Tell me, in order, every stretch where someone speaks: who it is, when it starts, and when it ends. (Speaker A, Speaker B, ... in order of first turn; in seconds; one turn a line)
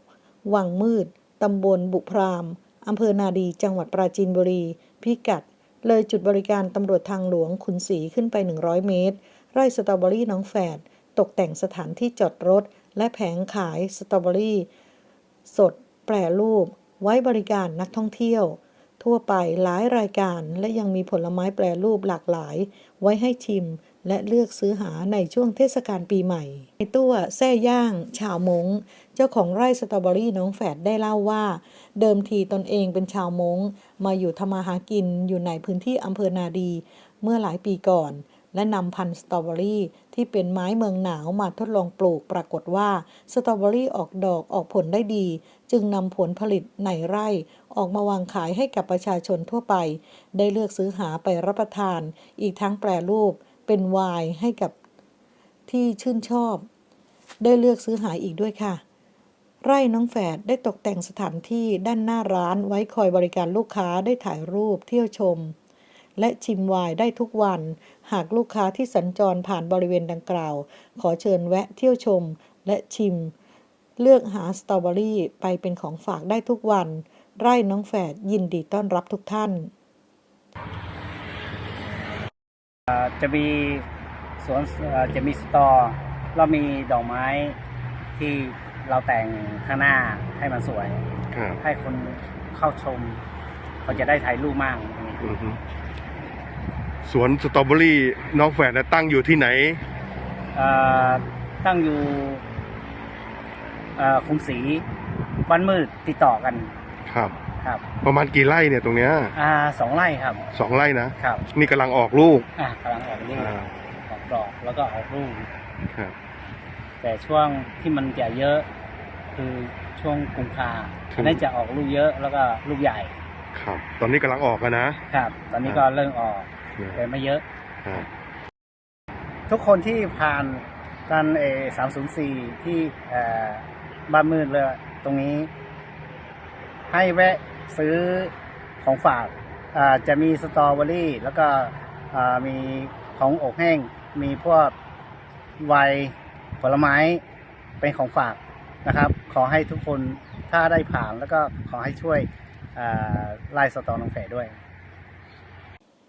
Speaker A: 0.4-14.7
Speaker A: 15.4-54.8
Speaker A: 55.7-56.7
Speaker A: 57.4-58.8
Speaker A: 59.6-65.5
Speaker A: 66.2-73.3
Speaker A: 74.0-79.7
Speaker B: 82.9-83.8
Speaker B: 84.4-87.6
Speaker B: 88.2-91.0
Speaker C: 91.3-91.6
Speaker B: 91.6-93.2
Speaker B: 93.8-95.2
Speaker C: 95.2-95.6
Speaker C: 97.0-99.8
Speaker B: 100.5-102.4
Speaker B: 104.0-104.8
Speaker B: 105.5-106.7
Speaker C: 107.1-107.3
Speaker C: 108.0-109.3
Speaker B: 109.3-110.4
Speaker C: 110.5-112.5
Speaker B: 111.2-111.4
Speaker B: 112.5-113.5
Speaker C: 113.4-113.7
Speaker B: 114.1-115.5
Speaker B: 117.0-118.7
Speaker B: 119.3-123.1
Speaker C: 121.1-121.4
Speaker C: 123.5-125.0
Speaker B: 125.1-127.4
Speaker B: 129.5-135.5
Speaker B: 136.9-144.7
Speaker B: 145.6-147.2
Speaker B: 147.8-154.6